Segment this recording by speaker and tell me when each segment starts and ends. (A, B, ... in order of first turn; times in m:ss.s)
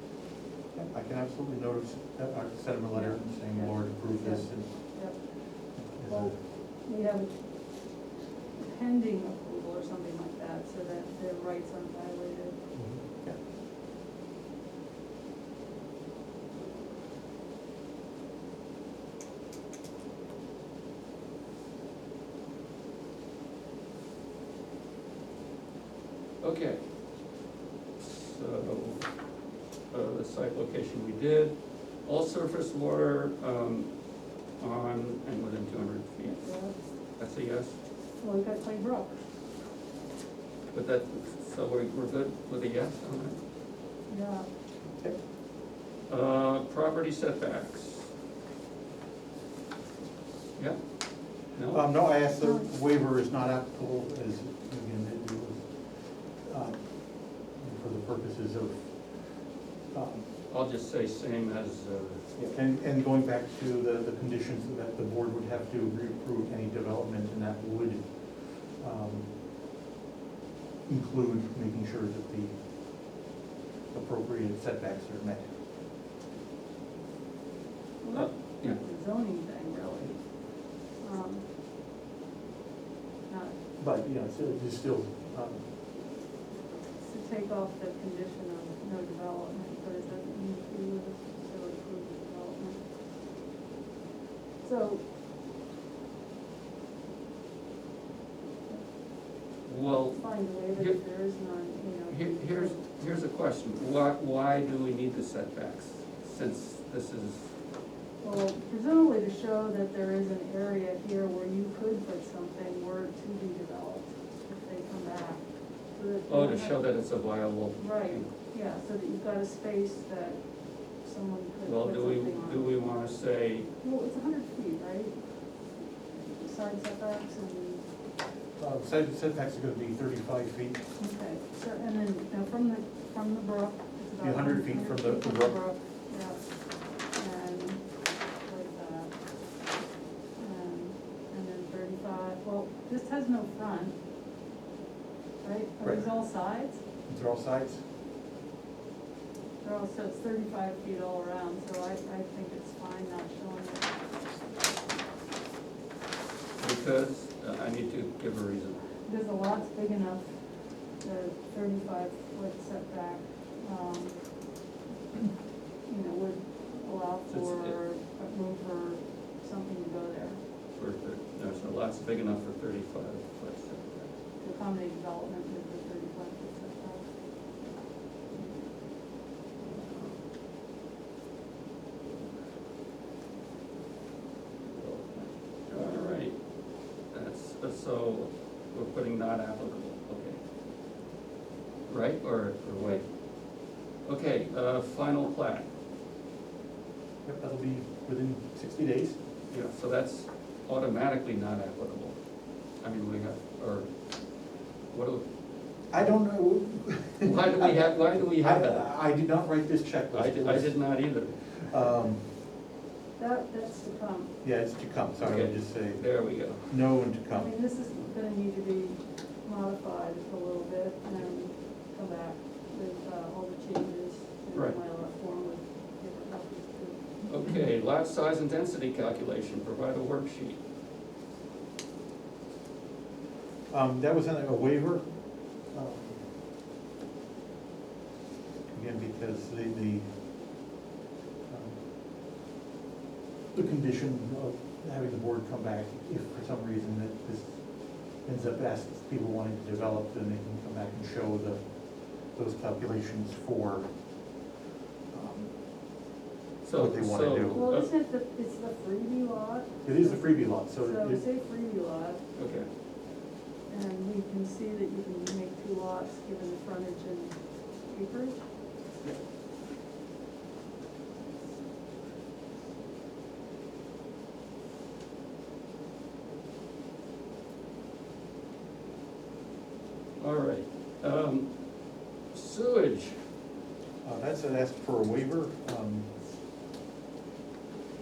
0:00.7-0:04.7 A
0:02.9-0:05.2 B
0:05.7-0:06.4 A
0:06.1-0:07.3 B
0:08.6-0:12.6 B
0:12.7-0:13.4 A
0:26.4-0:26.8 C
0:28.0-0:29.0 C
0:29.9-0:33.9 C
0:34.6-0:36.5 C
0:36.2-0:36.9 B
0:37.2-0:37.7 C
0:38.2-0:39.1 B
0:40.7-0:43.4 C
0:44.1-0:44.5 B
0:46.1-0:48.1 C
0:51.5-0:51.9 C
0:51.7-1:00.3 A
0:52.4-0:52.7 B
1:00.5-1:02.3 C
1:02.4-1:09.3 A
1:10.8-1:12.5 A
1:13.9-1:15.5 A
1:18.0-1:20.4 B
1:18.1-1:18.8 C
1:20.9-1:21.4 B
1:23.3-1:23.6 B
1:23.8-1:25.6 A
1:27.0-1:32.8 B
1:34.6-1:35.0 B
1:39.6-1:41.0 C
1:40.1-1:42.8 B
1:42.1-1:47.5 C
1:48.2-1:56.8 B
1:56.3-1:58.3 C
1:57.8-2:02.7 B
2:01.6-2:03.7 C
2:03.8-2:05.2 B
2:06.2-2:07.8 B
2:08.6-2:10.8 A
2:11.0-2:16.4 B
2:14.2-2:15.6 A
2:17.1-2:17.8 B
2:18.4-2:19.1 B
2:20.4-2:24.0 B
2:25.4-2:26.8 B
2:25.8-2:26.1 A
2:27.1-2:27.8 A
2:29.6-2:33.9 B
2:36.6-2:38.8 C
2:39.0-2:40.3 B
2:41.0-2:44.2 B
2:45.8-2:50.4 B
2:47.3-2:47.7 C
2:50.7-2:54.1 C
2:54.4-2:57.1 B
2:59.6-3:00.2 C
3:02.1-3:02.4 C
3:04.7-3:06.4 C
3:07.1-3:10.4 C
3:11.9-3:13.1 C
3:14.0-3:15.7 C
3:17.2-3:19.2 A
3:19.5-3:22.1 C
3:22.8-3:23.9 C
3:24.9-3:25.2 C
3:25.9-3:32.2 A
3:27.2-3:28.9 C
3:30.1-3:31.6 C
3:33.2-3:34.3 B
3:34.4-3:37.5 A
3:35.2-3:36.6 C
3:37.3-3:47.0 B
3:47.3-3:50.6 C
3:53.7-3:55.0 A
3:55.7-3:56.2 A
3:58.7-4:00.0 A
4:01.5-4:01.8 A
4:03.5-4:13.9 A
4:15.1-4:15.6 A
4:16.6-4:17.9 C
4:16.7-4:17.6 A
4:17.5-4:22.2 B
4:19.8-4:21.2 A
4:22.4-4:22.7 C
4:23.7-4:28.4 B
4:40.2-4:41.5 C
4:42.3-4:43.2 C
4:44.0-4:46.1 A